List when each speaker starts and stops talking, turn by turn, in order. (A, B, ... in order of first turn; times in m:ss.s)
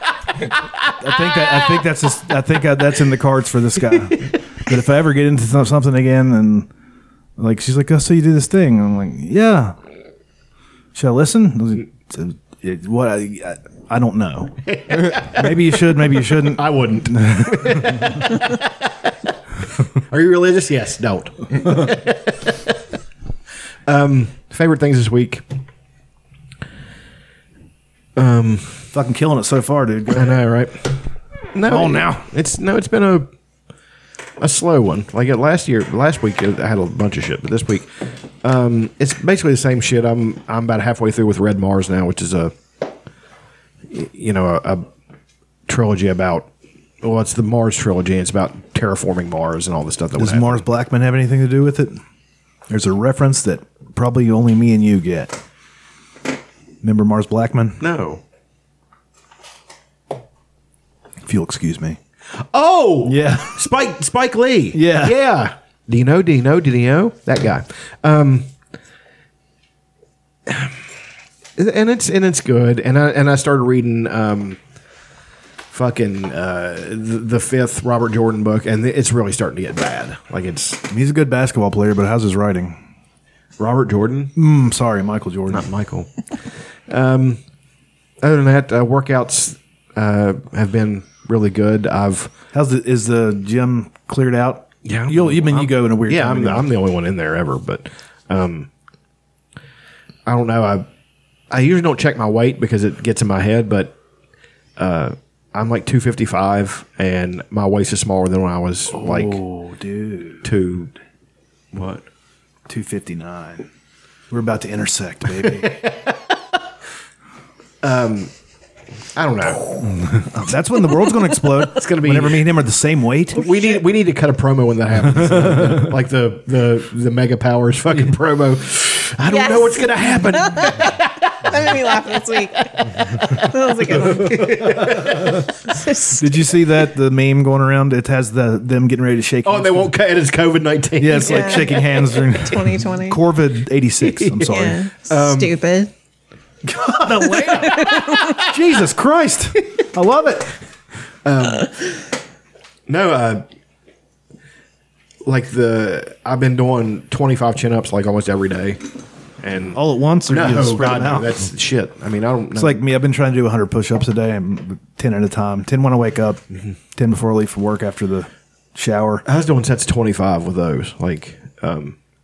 0:01.0-0:06.7 A
0:07.4-0:09.8 A
0:10.9-0:14.6 A
0:14.7-0:18.7 B
0:15.3-0:18.3 A
0:20.0-0:22.6 B
0:23.9-0:25.4 B
0:28.2-0:28.9 B
0:28.9-0:30.4 A
0:30.1-0:30.9 B
0:31.5-0:33.3 B
0:31.6-0:32.3 A
0:34.4-0:37.9 B
0:38.4-0:42.6 B
0:43.9-0:44.9 B
0:45.7-0:46.5 B
0:47.0-0:50.6 B
0:50.2-0:52.0 A
0:52.7-0:55.4 A
0:56.8-0:57.8 A
0:57.8-0:58.2 B
1:01.2-1:02.0 A
1:02.4-1:08.5 B
1:03.0-1:03.6 A
1:04.7-1:05.2 A
1:10.5-1:10.7 B
1:11.6-1:14.6 B
1:15.7-1:20.8 B
1:20.9-1:22.8 A
1:23.6-1:24.3 B
1:24.4-1:25.7 A
1:25.5-1:26.4 B
1:26.9-1:27.4 B
1:28.2-1:32.3 B
1:32.5-1:36.7 A
1:34.8-1:38.7 B
1:40.3-1:40.9 B
1:41.5-1:44.0 B
1:44.8-1:49.4 B
1:48.9-1:50.5 A
1:50.4-1:50.9 B
1:51.7-1:52.0 B
1:52.7-1:53.7 A
1:54.3-1:55.8 A
1:55.4-1:56.1 B
1:57.8-1:58.3 B
1:59.2-1:59.7 B
1:59.7-2:03.5 A
2:01.6-2:02.5 B
2:03.4-2:11.3 B
2:05.1-2:05.9 A
2:09.2-2:11.0 C
2:11.5-2:14.5 C
2:13.8-2:15.4 B
2:15.7-2:16.5 C
2:16.2-2:19.9 A
2:19.4-2:21.8 B
2:21.0-2:24.8 A
2:21.2-2:23.2 C
2:24.1-2:25.6 B
2:24.5-2:25.9 C
2:26.6-2:30.5 A
2:27.4-2:27.9 B
2:27.4-2:28.4 C
2:31.2-2:31.8 B
2:32.9-2:33.4 B
2:35.2-2:38.8 B
2:39.4-2:42.8 B
2:39.8-2:41.4 A
2:42.6-2:46.4 A
2:47.0-2:49.2 A
2:49.3-2:52.0 B